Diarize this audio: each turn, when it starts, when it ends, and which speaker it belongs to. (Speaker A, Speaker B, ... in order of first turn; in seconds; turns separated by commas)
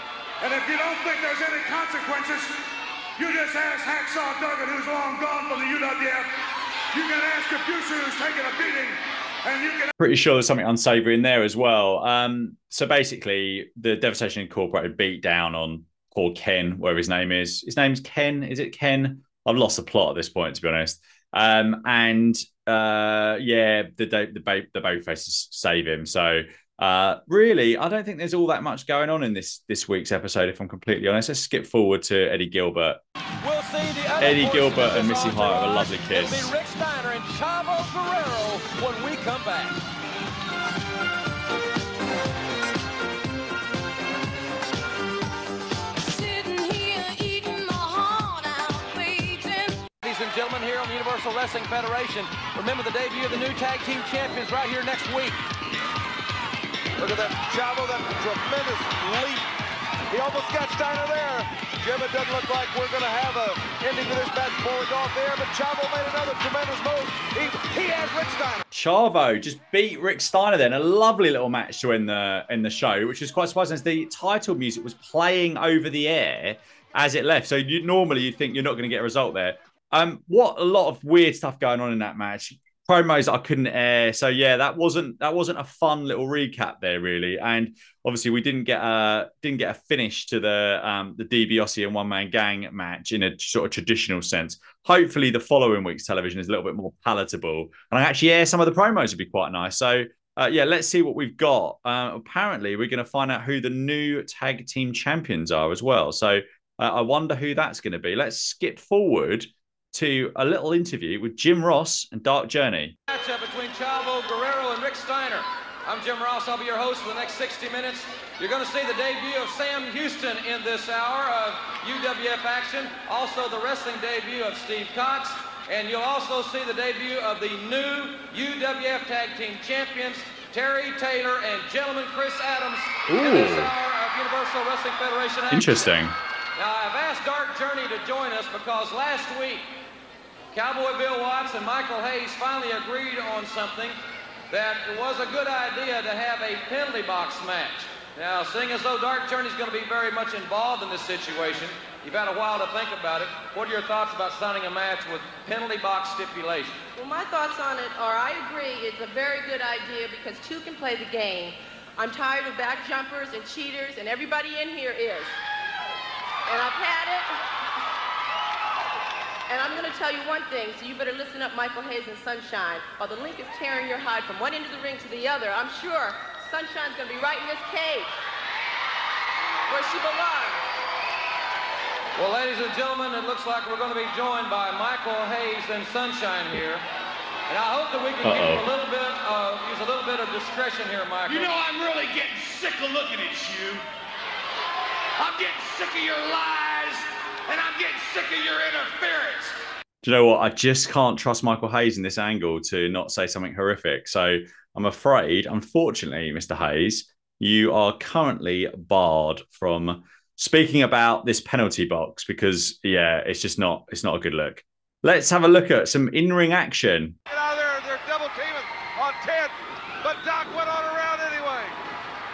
Speaker A: 0.4-2.6, Speaker A: 3.2-9.9, Speaker B: 10.0-33.0, Speaker C: 33.4-39.8, Speaker B: 34.2-36.5, Speaker D: 46.2-48.3, Speaker D: 49.0-49.7, Speaker C: 50.0-55.4, Speaker E: 57.0-59.5, Speaker E: 60.1-68.6, Speaker B: 68.7-113.0, Speaker C: 113.1-135.9, Speaker B: 133.1-133.7, Speaker B: 135.5-136.2, Speaker C: 136.6-139.7, Speaker C: 140.5-144.0, Speaker C: 144.5-156.8, Speaker F: 157.0-165.4, Speaker F: 166.5-167.3, Speaker F: 169.5-178.1, Speaker F: 179.7-180.6, Speaker C: 182.2-186.8, Speaker C: 187.5-191.5, Speaker B: 188.2-188.7, Speaker G: 191.3-193.8, Speaker G: 195.2-199.6, Speaker B: 200.0-217.2, Speaker E: 217.3-221.8